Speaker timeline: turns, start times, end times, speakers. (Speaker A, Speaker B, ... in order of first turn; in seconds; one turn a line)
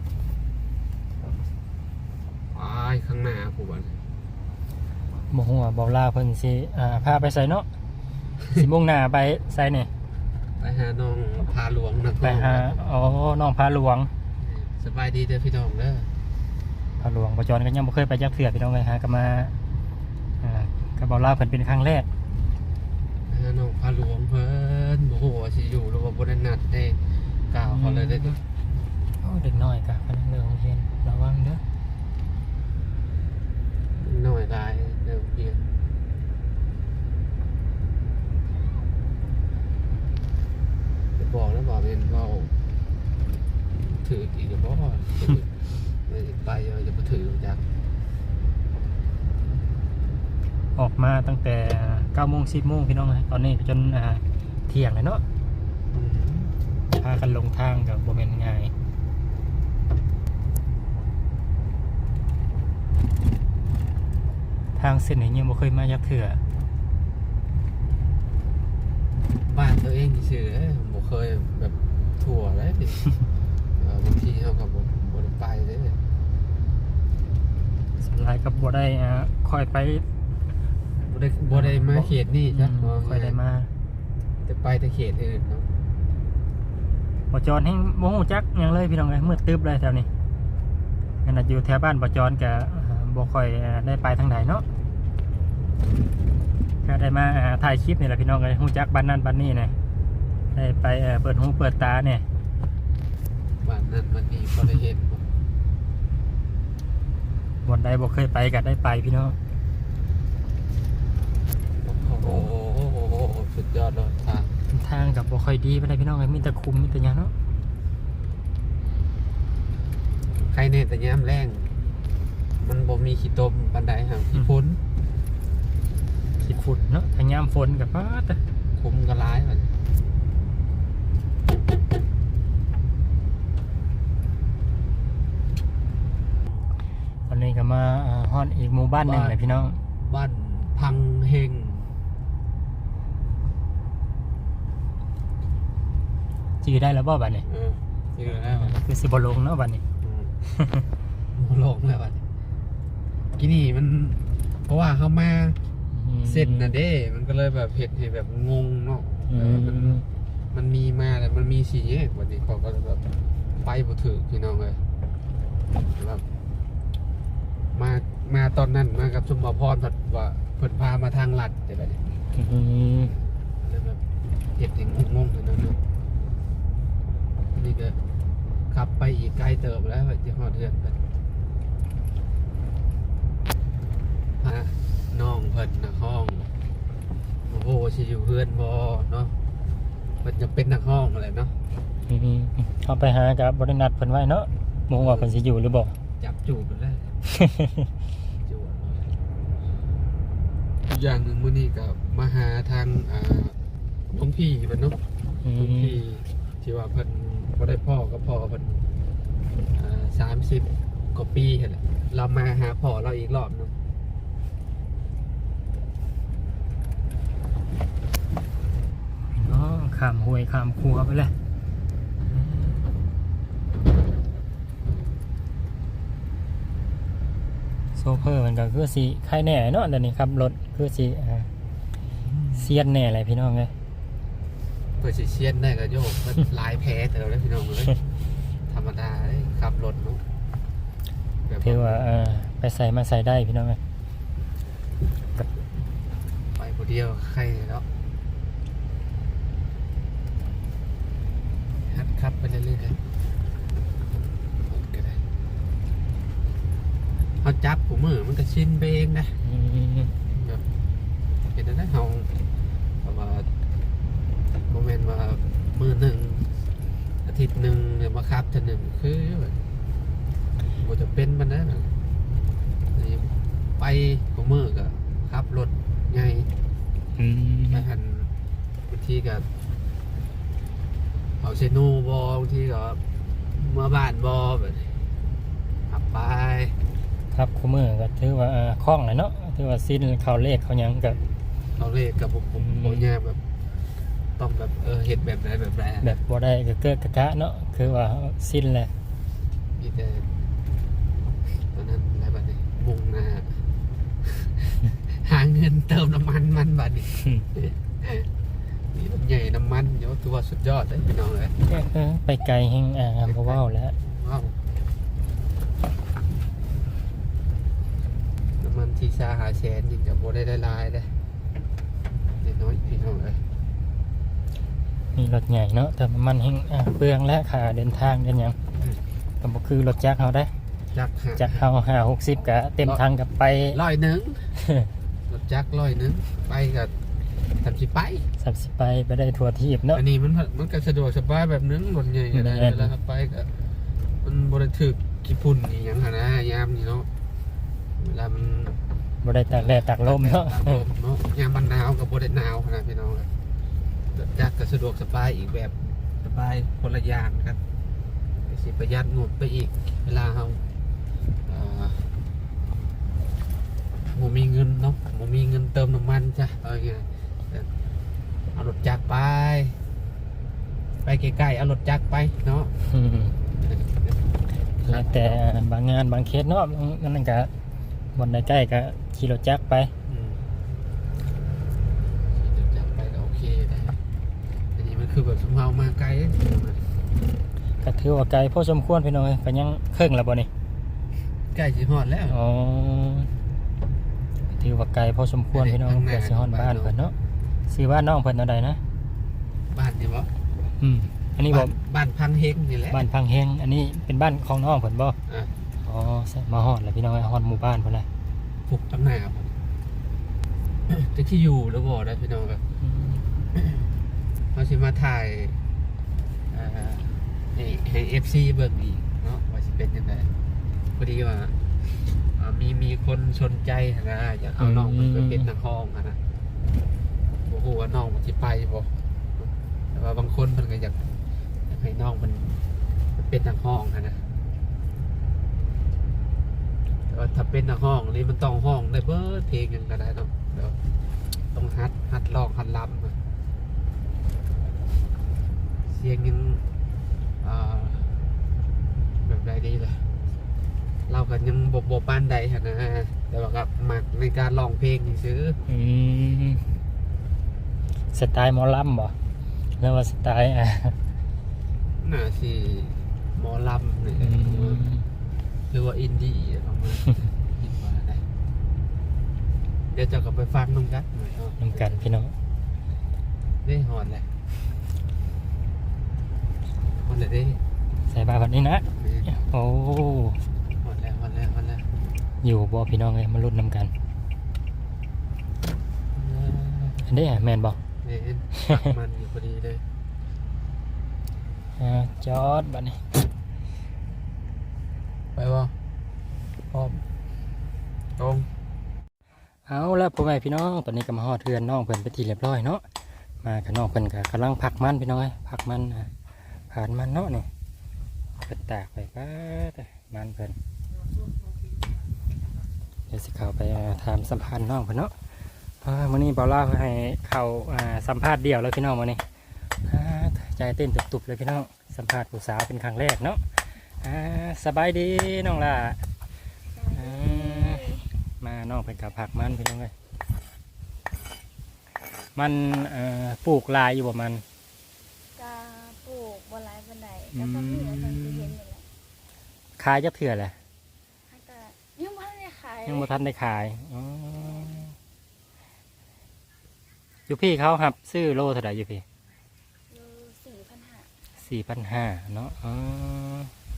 Speaker A: 2.5-4.0
Speaker B: 5.3-7.7
Speaker B: 8.5-9.9
Speaker A: 10.6-12.8
Speaker B: 12.2-14.1
Speaker A: 14.4-16.1
Speaker B: 17.0-19.5
Speaker B: 20.4-22.1
Speaker A: 23.3-27.0
Speaker A: 27.5-28.4
Speaker B: 27.6-28.4
Speaker B: 29.2-31.6
Speaker A: 34.0-35.6
Speaker A: 41.2-42.5
Speaker A: 43.9-47.6
Speaker B: 50.8-55.2
Speaker A: 55.9-56.5
Speaker B: 57.0-58.7
Speaker B: 64.8-66.4
Speaker A: 69.5-73.0
Speaker A: 73.8-76.0
Speaker B: 78.0-80.0
Speaker A: 81.1-83.4
Speaker B: 81.5-83.7
Speaker A: 84.4-85.7
Speaker B: 87.3-90.1
Speaker B: 91.2-94.6
Speaker B: 96.8-99.7
Speaker B: 100.5-102.2
Speaker A: 103.6-105.2
Speaker B: 107.6-109.3
Speaker A: 111.8-114.5
Speaker B: 114.7-117.3
Speaker A: 120.3-121.7
Speaker A: 122.6-124.8
Speaker B: 126.4-128.4
Speaker A: 128.7-129.7
Speaker B: 137.3-139.8
Speaker A: 139.0-139.4
Speaker A: 140.0-141.9
Speaker B: 146.6-147.4
Speaker A: 147.4-148.8
Speaker B: 148.2-149.8
Speaker A: 150.0-150.3
Speaker B: 150.5-150.8
Speaker A: 151.3-152.2
Speaker A: 153.3-155.6
Speaker B: 155.9-156.8
Speaker A: 156.2-163.0
Speaker B: 159.3-160.0
Speaker A: 163.6-164.8
Speaker A: 165.9-166.2
Speaker A: 167.7-172.0
Speaker B: 172.3-173.1
Speaker A: 173.6-174.0
Speaker A: 174.6-175.8
Speaker A: 177.6-178.0
Speaker A: 178.7-181.0
Speaker A: 184.4-186.5
Speaker A: 187.5-189.3
Speaker A: 190.2-191.5
Speaker B: 192.1-195.9
Speaker A: 195.0-195.3
Speaker A: 196.2-197.2
Speaker B: 197.3-197.9
Speaker A: 198.4-199.1
Speaker A: 200.9-203.6
Speaker A: 204.1-205.0
Speaker B: 205.4-206.0
Speaker A: 205.5-208.8
Speaker A: 209.7-213.7
Speaker B: 219.3-221.3
Speaker B: 222.3-222.8
Speaker B: 227.9-231.5
Speaker A: 232.2-232.7
Speaker B: 232.6-233.7
Speaker A: 235.0-238.0
Speaker A: 238.7-240.2
Speaker A: 241.4-242.1
Speaker B: 241.6-243.8
Speaker A: 246.5-247.8
Speaker A: 251.9-253.0
Speaker A: 254.7-255.2
Speaker A: 257.4-259.4
Speaker B: 259.4-260.1
Speaker A: 260.3-260.6
Speaker A: 261.5-262.3
Speaker A: 263.0-263.5
Speaker A: 264.7-266.5
Speaker A: 267.2-269.6
Speaker A: 270.8-271.9
Speaker A: 272.9-276.5
Speaker B: 277.2-277.9
Speaker A: 277.7-278.3
Speaker A: 278.9-279.5
Speaker A: 281.4-283.0
Speaker A: 283.5-284.9
Speaker A: 285.9-286.8
Speaker B: 287.3-291.2
Speaker A: 291.8-293.4
Speaker B: 292.6-293.1
Speaker A: 294.4-296.2
Speaker B: 296.0-298.9
Speaker A: 299.8-300.3
Speaker A: 301.7-303.6
Speaker A: 304.2-308.3
Speaker B: 307.1-307.4
Speaker A: 308.9-311.6
Speaker B: 311.6-313.9
Speaker A: 313.2-314.6
Speaker A: 318.6-321.1
Speaker A: 322.1-323.4
Speaker B: 325.1-328.6
Speaker A: 328.8-329.0
Speaker B: 329.4-330.5
Speaker A: 330.9-331.7
Speaker B: 331.4-333.8
Speaker A: 333.7-334.5
Speaker B: 334.6-334.9
Speaker A: 335.3-336.9
Speaker A: 337.6-338.3
Speaker B: 338.4-340.0
Speaker A: 339.9-343.5
Speaker B: 342.3-342.9
Speaker A: 344.2-347.1
Speaker A: 348.0-348.8
Speaker B: 349.2-350.8
Speaker A: 349.6-353.3
Speaker A: 354.1-357.6
Speaker A: 358.5-360.6
Speaker A: 361.4-362.1
Speaker A: 364.1-367.7
Speaker A: 368.5-369.8
Speaker A: 371.0-372.7
Speaker B: 372.9-373.3
Speaker A: 373.6-374.2
Speaker A: 374.8-375.4
Speaker B: 374.8-377.5
Speaker B: 378.1-379.9
Speaker A: 380.1-380.4
Speaker A: 382.3-384.0
Speaker A: 384.8-386.8
Speaker B: 387.8-390.5
Speaker A: 391.5-392.4
Speaker B: 392.3-393.3
Speaker B: 394.5-397.1
Speaker A: 395.5-397.0
Speaker B: 397.7-398.8
Speaker A: 399.7-400.3
Speaker B: 400.8-401.7
Speaker A: 401.5-403.1
Speaker B: 402.9-405.2
Speaker A: 405.3-405.5
Speaker B: 405.8-408.1
Speaker A: 408.7-409.5
Speaker A: 410.9-412.6
Speaker B: 412.8-413.2
Speaker A: 413.6-413.9
Speaker A: 414.5-415.6
Speaker A: 416.5-420.3
Speaker A: 421.0-421.6
Speaker A: 422.2-426.2
Speaker B: 424.6-425.5
Speaker A: 427.4-431.0
Speaker A: 431.7-432.6
Speaker A: 433.1-434.2
Speaker A: 437.1-440.8
Speaker A: 441.5-443.1
Speaker A: 445.9-446.6
Speaker A: 447.4-448.2
Speaker A: 449.2-450.1
Speaker A: 451.1-455.6
Speaker B: 455.7-456.6
Speaker B: 458.1-459.1
Speaker B: 459.8-460.9
Speaker A: 462.0-464.8
Speaker B: 464.2-465.0
Speaker A: 465.7-468.2
Speaker A: 469.9-472.1
Speaker B: 471.6-472.3
Speaker A: 473.6-474.3
Speaker A: 477.0-477.6
Speaker B: 478.1-480.4
Speaker A: 479.0-479.3
Speaker A: 480.7-481.9
Speaker B: 482.4-483.9
Speaker A: 486.1-487.0
Speaker B: 487.0-487.8
Speaker A: 488.0-489.8
Speaker B: 491.8-493.1
Speaker A: 495.3-495.7
Speaker A: 496.7-497.0
Speaker A: 498.1-498.5
Speaker B: 499.7-502.8
Speaker B: 503.4-506.1
Speaker B: 506.7-507.5
Speaker B: 508.4-510.6
Speaker B: 513.1-515.1
Speaker B: 515.8-519.2
Speaker B: 519.8-523.4
Speaker B: 524.0-526.0
Speaker C: 526.7-528.2
Speaker B: 527.0-527.9
Speaker B: 528.4-529.9
Speaker B: 532.3-534.4
Speaker C: 535.3-538.9
Speaker B: 537.3-538.5
Speaker B: 539.8-540.5
Speaker C: 541.3-543.1
Speaker B: 542.9-544.9
Speaker B: 547.3-549.0
Speaker C: 549.9-551.1
Speaker B: 551.4-553.5